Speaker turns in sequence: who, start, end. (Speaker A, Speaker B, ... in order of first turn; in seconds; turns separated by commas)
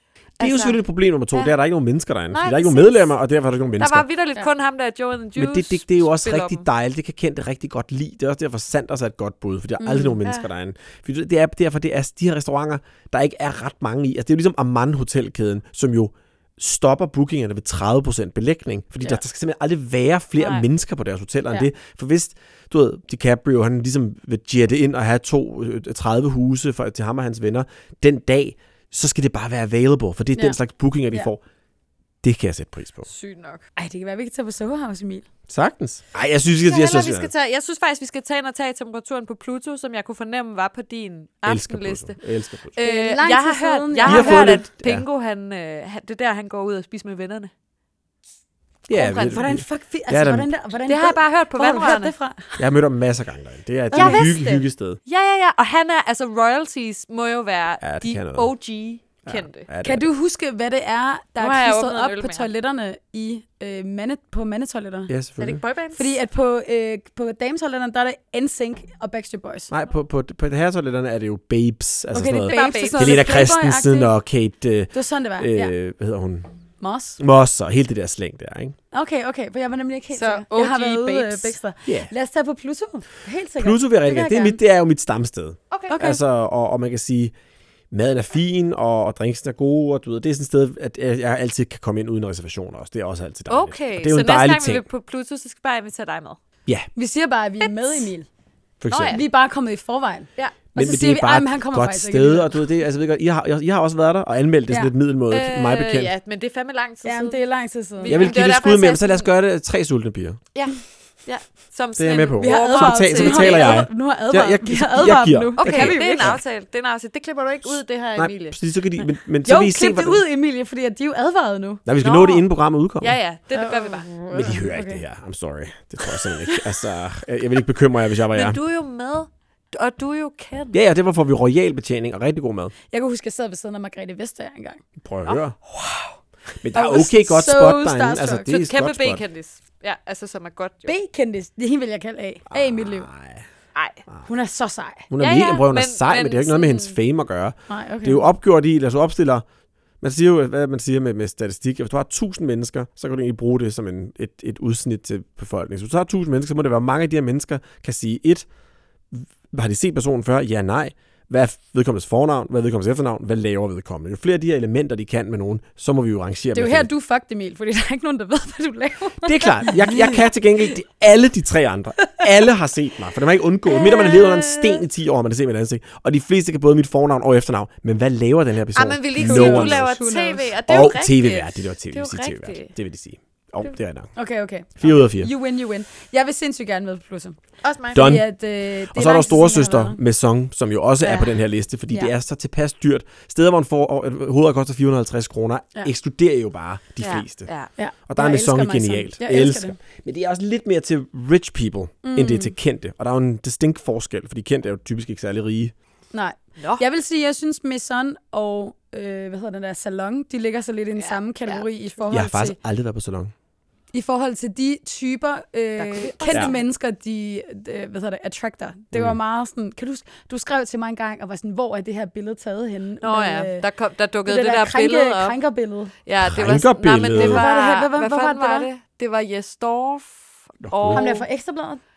Speaker A: 0.4-0.8, Speaker B: 0.4-4.0, Speaker A: 2.3-3.1, Speaker A: 3.8-6.6, Speaker B: 5.3-31.4, Speaker C: 9.8-10.2, Speaker A: 20.4-20.7, Speaker B: 32.2-33.1, Speaker A: 33.1-33.6, Speaker C: 33.8-35.2, Speaker B: 35.5-37.3, Speaker A: 36.5-42.1, Speaker B: 41.4-42.7, Speaker A: 42.7-47.5, Speaker C: 42.8-44.6, Speaker B: 44.0-45.0, Speaker B: 48.9-50.5, Speaker A: 48.9-49.4, Speaker C: 49.1-52.7, Speaker A: 50.9-52.1, Speaker B: 52.6-55.0, Speaker A: 53.9-59.7, Speaker C: 53.9-54.3, Speaker B: 57.8-58.5, Speaker B: 59.2-60.1, Speaker C: 59.8-65.1, Speaker A: 61.4-62.5, Speaker B: 65.1-65.6, Speaker A: 65.4-66.1, Speaker C: 65.9-69.7, Speaker B: 69.7-76.5, Speaker C: 72.1-74.1, Speaker A: 72.5-73.2, Speaker C: 74.9-75.7, Speaker C: 76.8-77.2, Speaker B: 77.2-78.7, Speaker C: 78.9-84.6, Speaker A: 80.1-81.6, Speaker B: 81.8-82.1, Speaker B: 83.6-87.3, Speaker A: 85.7-86.0, Speaker C: 85.9-86.2, Speaker B: 87.9-94.8, Speaker A: 93.5-96.4, Speaker C: 97.0-98.3, Speaker A: 97.6-98.1, Speaker B: 98.8-99.2, Speaker A: 98.9-99.2, Speaker C: 99.1-102.6, Speaker B: 100.7-106.1, Speaker A: 105.3-107.4, Speaker C: 107.0-108.3, Speaker A: 108.0-109.3, Speaker B: 108.1-110.4, Speaker A: 110.5-113.8, Speaker B: 112.0-116.4, Speaker C: 112.4-116.3, Speaker A: 115.6-118.6, Speaker B: 118.1-120.2, Speaker C: 119.4-121.8, Speaker B: 121.8-123.2, Speaker A: 122.0-122.5, Speaker A: 123.0-124.3, Speaker C: 123.5-125.0, Speaker B: 124.3-128.6, Speaker A: 128.3-130.8, Speaker B: 130.7-132.7, Speaker C: 132.9-134.8, Speaker B: 135.0-135.6, Speaker C: 135.8-136.1, Speaker B: 136.6-139.2, Speaker C: 136.7-138.5, Speaker A: 138.5-140.9, Speaker C: 140.8-143.1, Speaker B: 142.5-143.4, Speaker A: 143.7-144.0, Speaker C: 144.2-145.1, Speaker B: 145.1-149.4, Speaker A: 145.2-146.9, Speaker C: 147.7-148.2, Speaker B: 150.0-158.5, Speaker B: 159.1-166.9, Speaker C: 166.5-170.2, Speaker B: 169.2-179.9, Speaker A: 173.7-174.8, Speaker A: 178.7-182.7, Speaker C: 179.2-180.5, Speaker B: 180.6-184.1, Speaker C: 184.2-187.4, Speaker B: 184.8-185.3, Speaker A: 187.6-188.1, Speaker B: 187.9-188.3, Speaker C: 187.9-190.0, Speaker B: 188.8-197.5, Speaker A: 191.0-191.3, Speaker A: 197.0-197.7, Speaker C: 197.8-199.8, Speaker B: 198.1-205.7, Speaker C: 202.0-202.5, Speaker C: 206.1-212.6, Speaker A: 206.6-206.8, Speaker A: 211.0-211.6, Speaker B: 212.1-213.3, Speaker C: 213.9-223.6, Speaker A: 215.8-216.6, Speaker A: 223.0-225.4, Speaker C: 224.3-225.9, Speaker A: 226.0-231.2, Speaker B: 226.2-227.4, Speaker C: 227.1-228.7, Speaker B: 230.6-231.1, Speaker C: 230.9-231.8